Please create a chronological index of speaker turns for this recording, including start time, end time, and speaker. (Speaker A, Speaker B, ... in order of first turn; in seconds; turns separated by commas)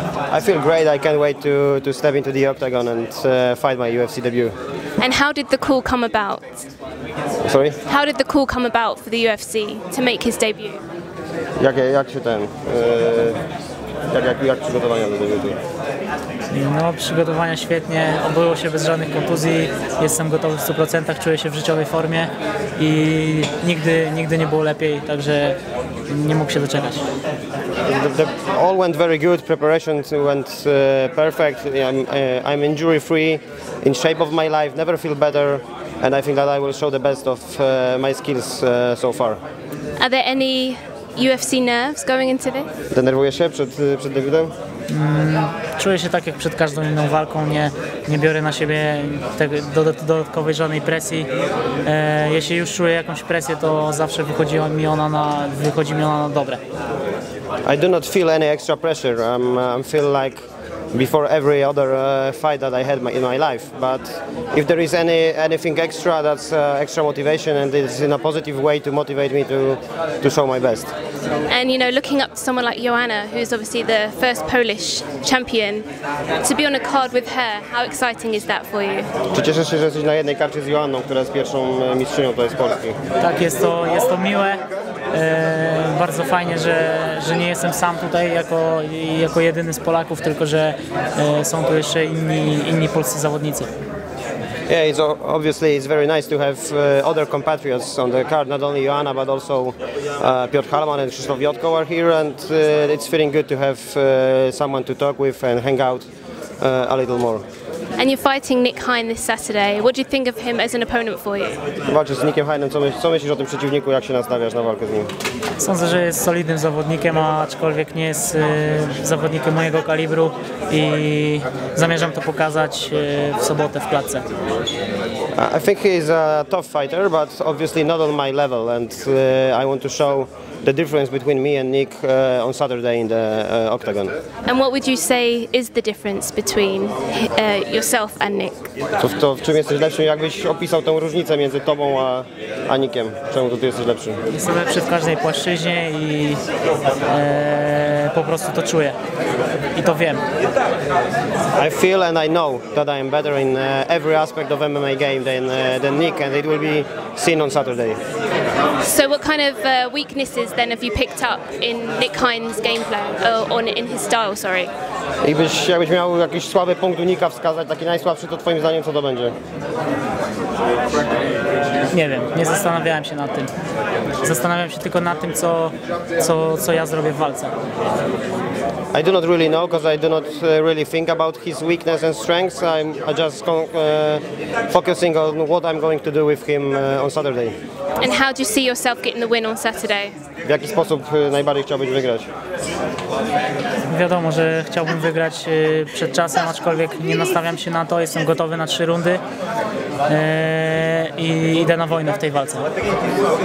Speaker A: 0.3-4.5, Speaker B: 5.0-6.7, Speaker A: 7.4-7.8, Speaker B: 7.9-10.8, Speaker A: 11.6-13.4, Speaker A: 14.1-15.6, Speaker C: 16.5-27.1, Speaker A: 27.9-39.4, Speaker B: 40.0-42.7, Speaker A: 42.9-44.5, Speaker C: 44.9-51.3, Speaker C: 51.8-56.6, Speaker A: 57.6-70.9, Speaker B: 71.5-75.9, Speaker B: 76.4-79.1, Speaker A: 79.3-83.0, Speaker C: 83.2-93.7, Speaker A: 94.7-106.1, Speaker A: 106.6-107.4, Speaker B: 108.0-111.6, Speaker A: 111.9-115.1, Speaker C: 115.6-124.2, Speaker A: 125.4-134.2, Speaker B: 134.5-138.7, Speaker A: 139.0-144.2, Speaker C: 144.3-146.4, Speaker C: 147.1-149.0, Speaker C: 149.8-150.2, Speaker A: 151.6-158.0, Speaker B: 158.8-164.7, Speaker A: 165.2-169.3, Speaker C: 171.9-173.5, Speaker C: 174.2-177.5, Speaker A: 178.9-187.6, Speaker B: 188.0-190.1, Speaker A: 190.5-192.3, Speaker C: 193.9-199.2, Speaker C: 200.1-202.7